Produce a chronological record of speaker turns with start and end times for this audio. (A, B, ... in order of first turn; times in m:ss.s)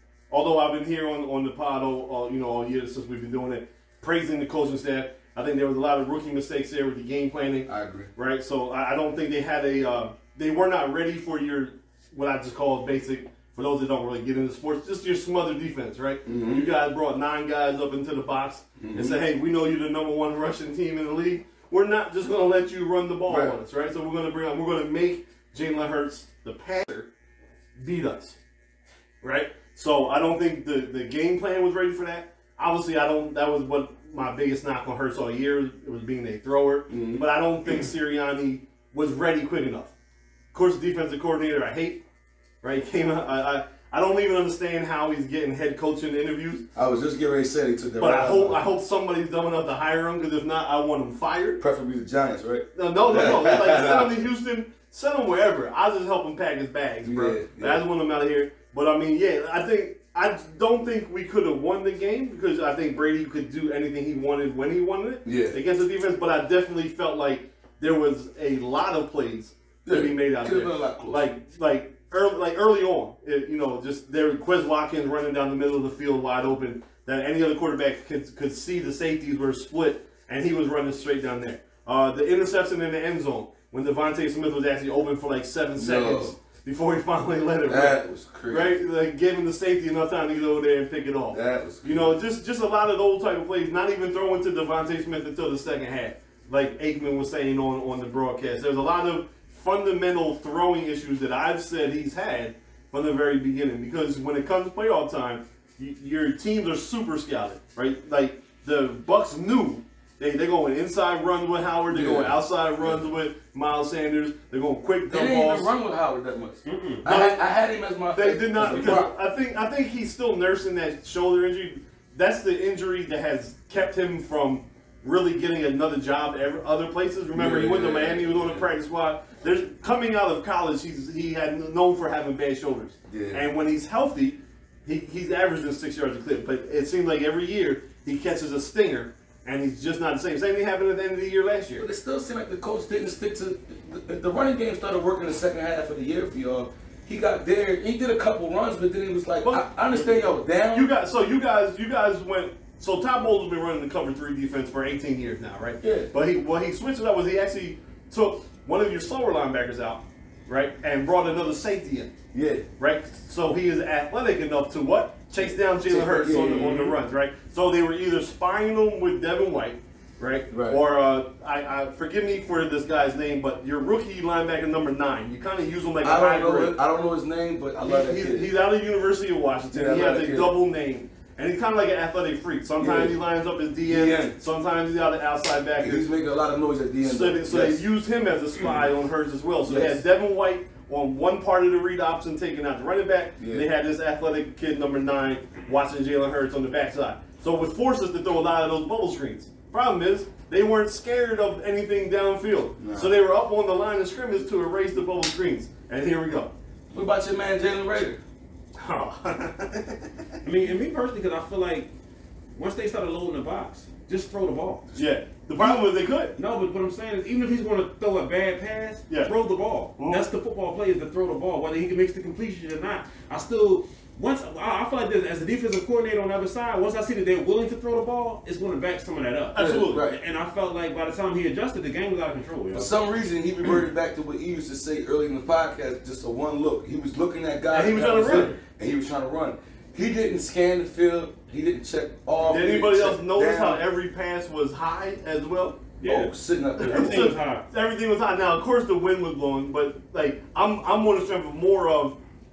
0:00.3-0:27.1 A
0:07.7-0:08.1 B
0:16.2-0:16.7 B
0:18.8-0:19.2 B
0:23.3-0:23.6 B
0:27.8-0:28.4 A
0:29.2-0:39.9 A
0:36.9-0:37.2 B
0:40.5-0:42.0 A
0:42.6-0:46.6 A
0:46.7-0:48.6 B
0:48.0-0:51.6 A
0:51.6-0:54.1 B
0:52.7-1:55.7 A
0:57.0-0:57.8 B
1:05.2-1:05.6 B
1:09.8-1:11.2 B
1:25.8-1:26.4 B
1:27.7-1:28.8 B
1:31.3-1:32.1 B
1:51.9-1:52.4 B
1:55.1-1:59.1 B
1:56.6-1:57.0 C
1:57.0-1:57.4 A
1:58.1-2:21.8 A
2:07.3-2:08.7 B
2:13.1-2:13.4 B
2:21.8-2:30.9 B
2:29.4-2:29.7 A
2:30.7-2:42.1 A
2:35.8-2:36.1 B
2:42.3-2:42.6 B
2:42.8-2:56.8 A
2:45.4-2:46.9 B
2:46.4-2:46.9 C
2:50.5-2:50.8 B
2:56.0-2:58.5 B
2:57.8-3:06.0 A
2:59.7-3:00.5 B
3:02.8-3:03.2 B
3:03.9-3:04.4 B
3:05.8-3:07.8 B
3:07.0-3:26.5 A
3:09.6-3:10.0 B
3:13.4-3:13.6 B
3:22.8-3:23.1 B
3:26.9-3:28.2 B
3:28.8-3:30.1 A
3:30.4-3:31.9 C
3:32.5-3:35.0 C
3:35.0-3:36.3 A
3:35.6-3:35.8 C
3:36.4-3:52.9 C
3:40.0-3:40.2 A
3:49.5-3:50.0 A
3:49.6-3:50.2 B
3:52.7-4:03.8 B
3:57.7-3:58.6 A
4:02.4-4:05.9 A
4:06.0-4:07.6 C
4:06.0-4:07.4 B
4:06.8-4:12.2 A